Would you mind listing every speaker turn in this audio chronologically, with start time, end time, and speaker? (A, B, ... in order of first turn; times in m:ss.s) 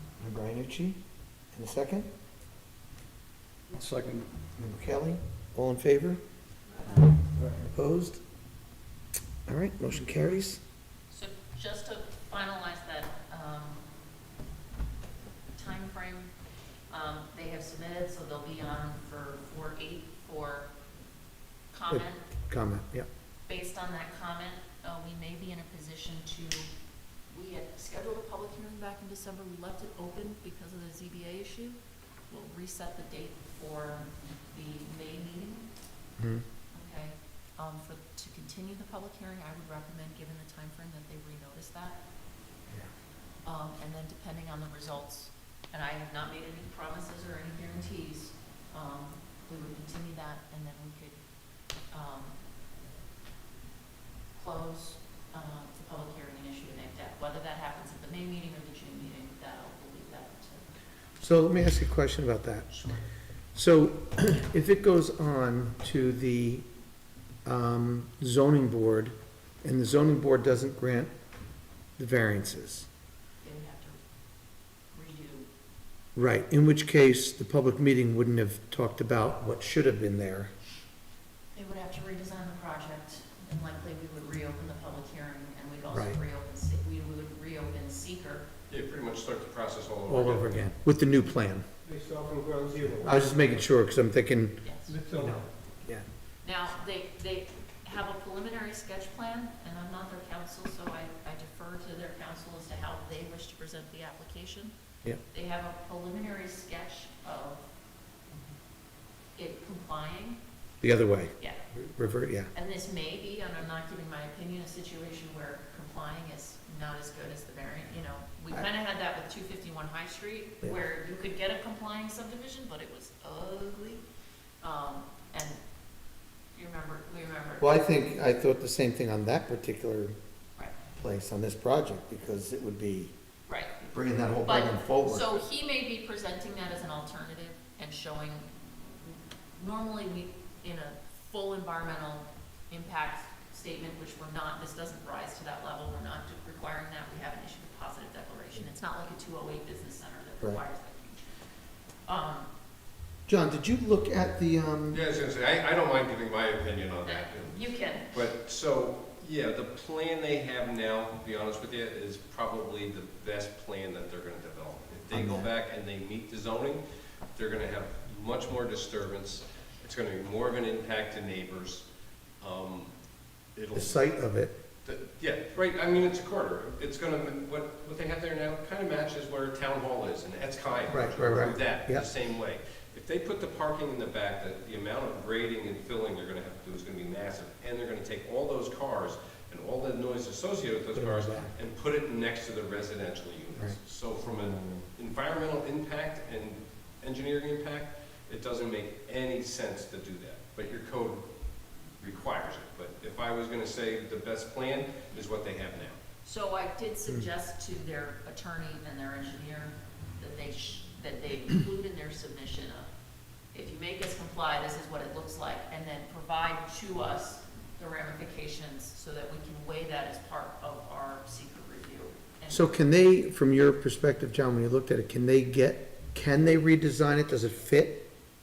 0:00.2-0:01.0 A
0:01.5-0:02.1 A
0:03.7-0:04.3 B
0:04.6-0:06.2 A
0:07.7-0:08.2 A
0:09.5-0:10.6 A
0:11.1-0:13.8 C
0:15.5-0:16.3 C
0:16.9-0:20.7 C
0:21.7-0:22.2 C
0:21.9-0:23.1 A
0:23.4-0:26.7 C
0:27.3-0:31.8 C
0:32.3-0:35.6 C
0:36.2-0:36.4 A
0:36.7-0:42.0 C
0:43.4-0:51.2 C
0:51.9-0:52.4 C
0:54.3-1:00.7 C
1:01.2-1:02.9 A
1:03.5-1:06.7 A
1:07.4-1:11.1 A
1:12.0-1:12.9 A
1:13.4-1:14.0 C
1:14.9-1:15.5 C
1:16.1-1:20.5 A
1:21.5-1:28.4 C
1:25.9-1:26.2 A
1:28.7-1:30.6 D
1:30.1-1:31.7 A
1:32.1-1:33.2 B
1:33.0-1:34.6 A
1:34.6-1:34.9 C
1:35.0-1:35.3 B
1:35.2-1:36.0 A
1:36.4-1:44.7 C
1:45.3-1:47.7 C
1:49.4-1:50.4 C
1:50.8-1:52.5 A
1:52.5-2:04.0 C
2:04.6-2:05.6 C
2:06.5-2:07.7 C
2:07.6-2:10.1 A
2:11.0-2:13.1 A
2:13.5-2:13.9 C
2:13.9-2:15.4 A
2:14.4-2:18.5 C
2:19.0-2:31.2 C
2:32.0-2:32.5 C
2:33.3-2:35.0 A
2:34.9-2:37.6 D
2:37.0-2:38.1 C
2:38.1-2:46.8 D
2:45.1-2:45.5 A
2:47.3-2:51.8 D
2:52.4-2:52.9 D
2:53.5-2:54.0 D
2:53.7-2:54.6 A
2:54.8-3:21.2 D
3:00.9-3:02.1 A
3:10.9-3:11.5 A
3:22.0-3:26.0 D
3:26.2-3:32.9 C
3:33.5-3:42.7 C
3:42.5-3:48.1 A